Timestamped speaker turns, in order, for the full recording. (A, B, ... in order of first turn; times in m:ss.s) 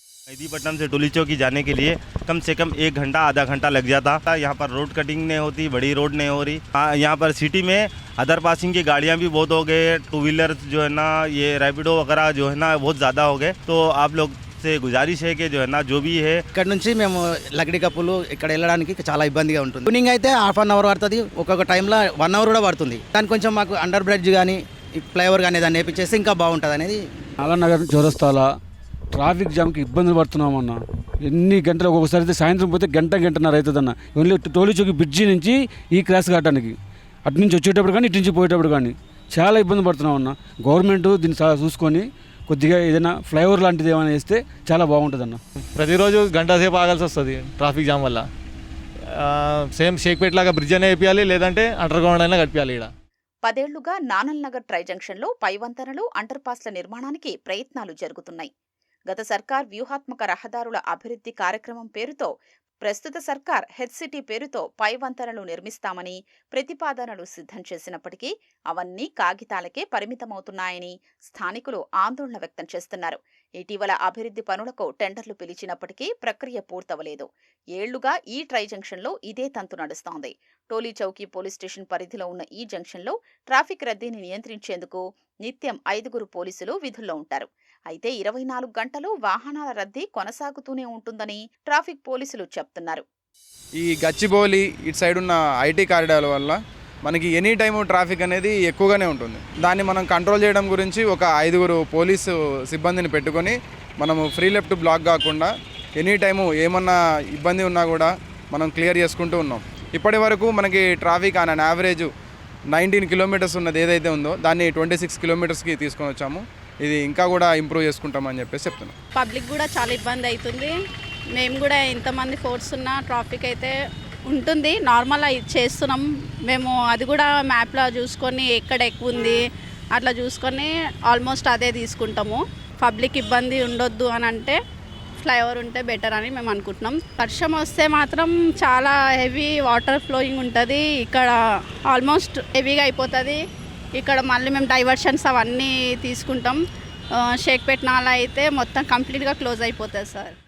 0:00.3-0:16.4 A
0:16.5-0:27.0 B
0:27.4-0:28.5 C
0:29.1-0:36.7 C
0:37.3-0:45.4 C
0:45.7-0:48.3 D
0:49.1-0:52.9 D
0:53.4-0:58.5 E
0:59.1-1:02.3 E
1:02.8-1:33.0 E
1:33.8-1:52.1 F
1:52.8-1:58.9 F
1:59.1-2:00.8 G
2:01.4-2:03.7 G
2:04.3-2:09.4 G
2:09.9-2:14.6 G
2:15.2-2:21.3 G
2:21.9-2:23.4 G
2:24.0-2:26.6 G
2:27.4-2:30.3 G